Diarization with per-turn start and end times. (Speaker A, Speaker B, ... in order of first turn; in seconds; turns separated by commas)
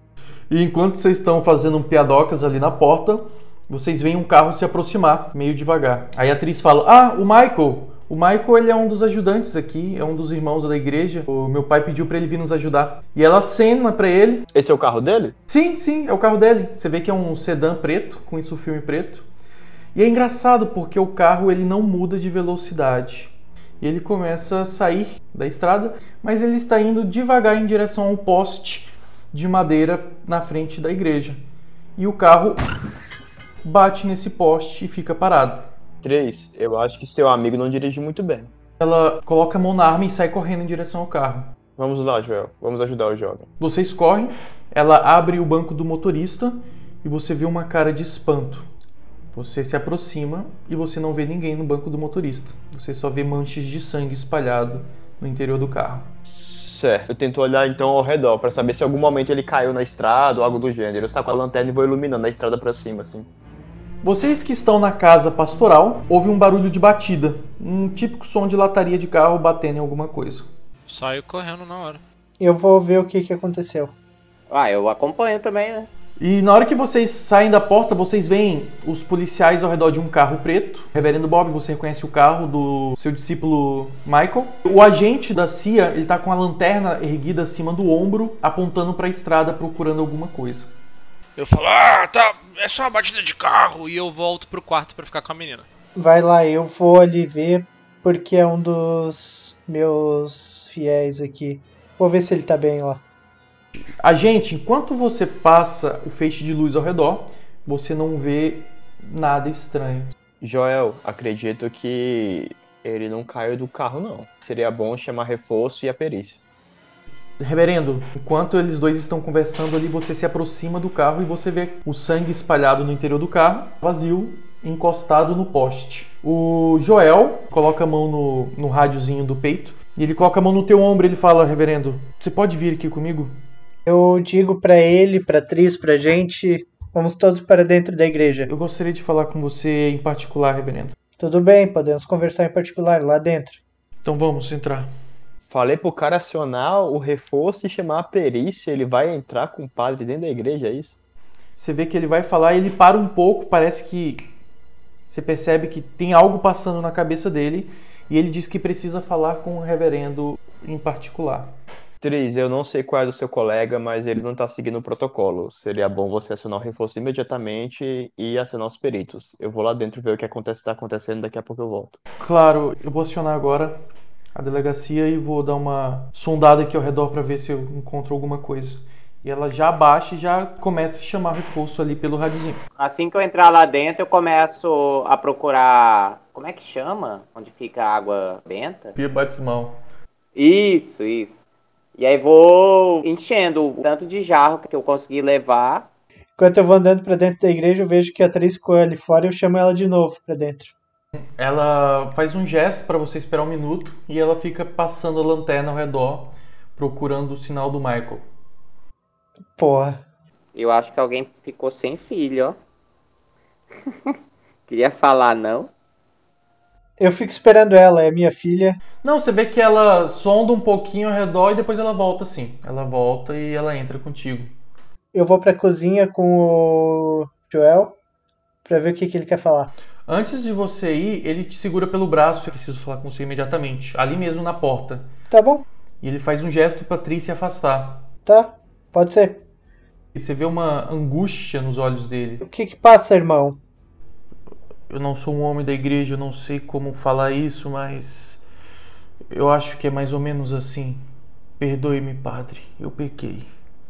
Speaker A: 0.5-14.5, Speaker B: 14.5-15.4, Speaker A: 15.5-19.3, Speaker A: 19.9-31.4, Speaker A: 32.0-32.6, Speaker A: 33.6-35.7, Speaker B: 36.0-38.5, Speaker A: 38.8-41.5, Speaker B: 41.8-43.5, Speaker A: 43.6-48.7, Speaker A: 49.3-56.1, Speaker B: 56.2-63.3, Speaker A: 64.0-70.5, Speaker C: 70.9-72.0, Speaker D: 72.4-73.9, Speaker E: 74.5-75.9, Speaker A: 76.2-90.7, Speaker F: 91.4-93.8, Speaker C: 93.8-95.7, Speaker D: 96.0-103.0, Speaker A: 104.0-110.1, Speaker B: 110.4-116.4, Speaker A: 117.4-133.3, Speaker D: 133.9-138.5, Speaker A: 138.5-140.9, Speaker D: 141.2-143.6, Speaker A: 144.0-144.9, Speaker B: 145.5-151.0, Speaker A: 151.6-154.2, Speaker A: 155.1-161.6, Speaker B: 162.0-172.0, Speaker A: 172.2-173.8, Speaker A: 174.3-182.6, Speaker E: 182.8-188.9, Speaker A: 189.0-189.8, Speaker E: 190.4-191.4, Speaker E: 192.0-195.9, Speaker D: 196.4-200.7, Speaker A: 201.4-208.2, Speaker D: 209.6-210.0, Speaker E: 210.6-212.6, Speaker E: 213.9-214.2, Speaker E: 214.7-215.7, Speaker D: 217.0-218.8, Speaker A: 219.0-224.5, Speaker D: 225.1-228.0, Speaker D: 228.7-229.7, Speaker A: 230.1-235.1, Speaker D: 235.3-235.6, Speaker A: 236.0-238.1, Speaker D: 238.3-239.4, Speaker A: 240.1-242.4, Speaker D: 242.4-243.6, Speaker A: 244.9-248.4, Speaker A: 249.3-251.0, Speaker A: 251.6-253.5